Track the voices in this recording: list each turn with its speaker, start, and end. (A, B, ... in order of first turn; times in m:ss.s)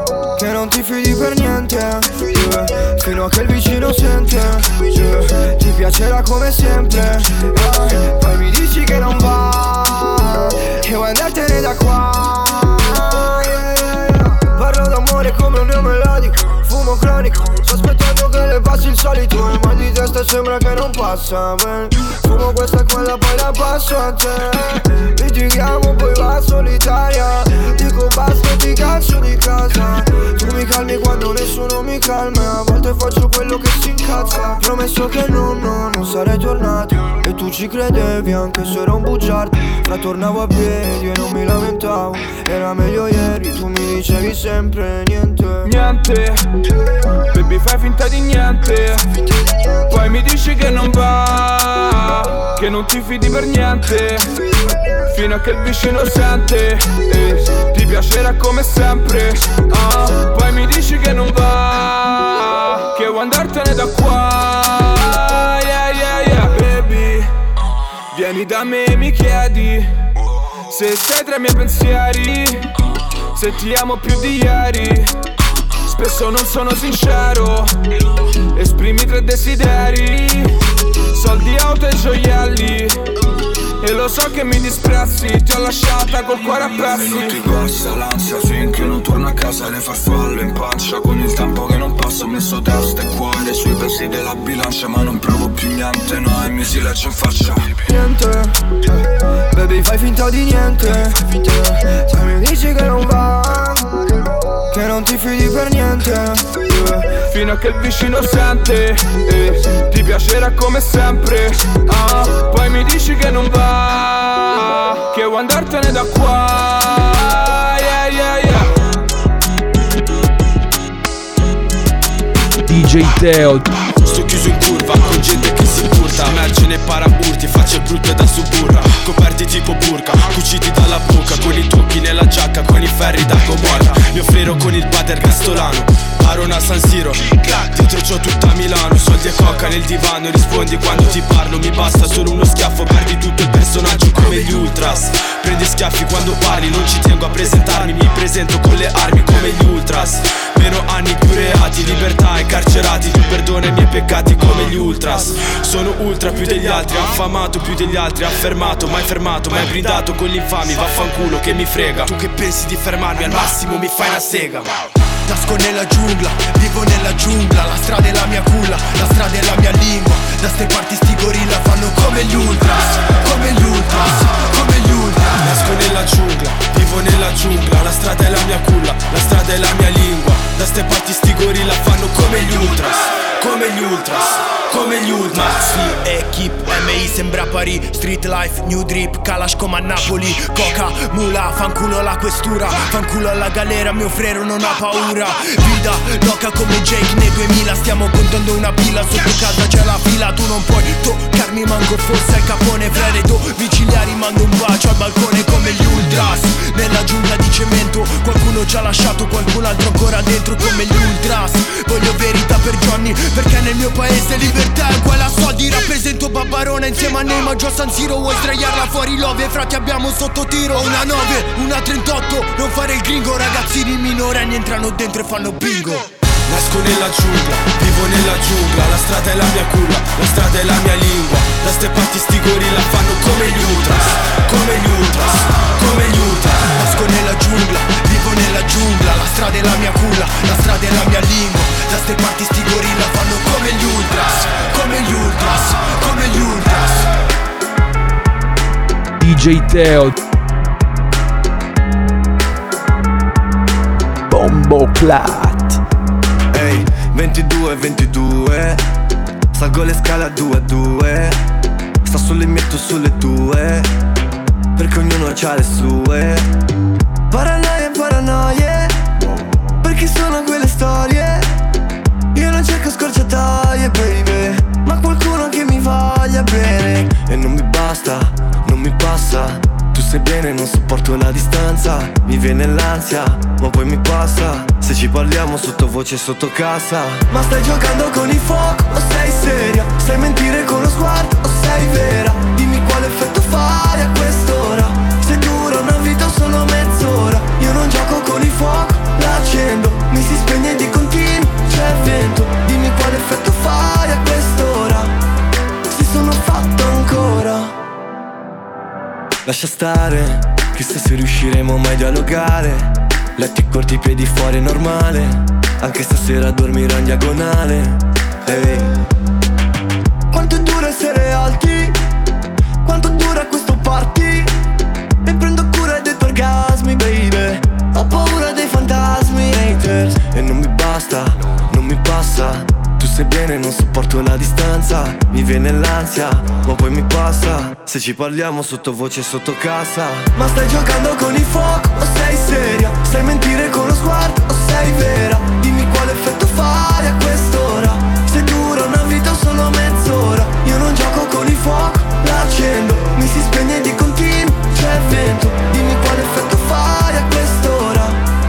0:00.4-0:45.6 A
0:45.6-0:46.4 B
0:47.3-0:49.0 B
0:49.9-0:54.3 B
0:55.1-1:07.3 B
1:08.1-1:09.9 B
1:10.7-1:12.6 B
1:13.4-1:15.1 B
1:15.9-1:17.7 B
1:18.5-1:20.5 B
1:21.1-1:23.0 B
1:23.8-1:27.4 B
1:26.8-1:37.7 C
1:37.8-1:38.5 A
1:39.5-1:43.9 A
1:44.7-1:47.1 A
1:47.3-1:58.7 B
2:02.6-2:03.7 D
2:04.0-2:44.8 E
2:43.3-2:43.7 F
2:45.3-2:55.4 F
2:55.3-3:05.9 E
3:05.8-3:46.0 F
3:46.5-3:56.6 E
3:56.6-4:07.0 F
4:09.2-4:10.1 D
4:14.3-4:15.8 D
4:16.5-4:18.8 G
4:19.5-4:21.4 G
4:22.0-4:23.9 G
4:24.8-4:26.5 G
4:27.3-4:29.0 G
4:29.8-4:31.5 G
4:32.3-5:05.1 G
5:05.8-5:07.7 G
5:09.4-5:18.9 G
5:20.3-5:22.0 G
5:22.8-5:24.5 G
5:25.2-5:58.2 G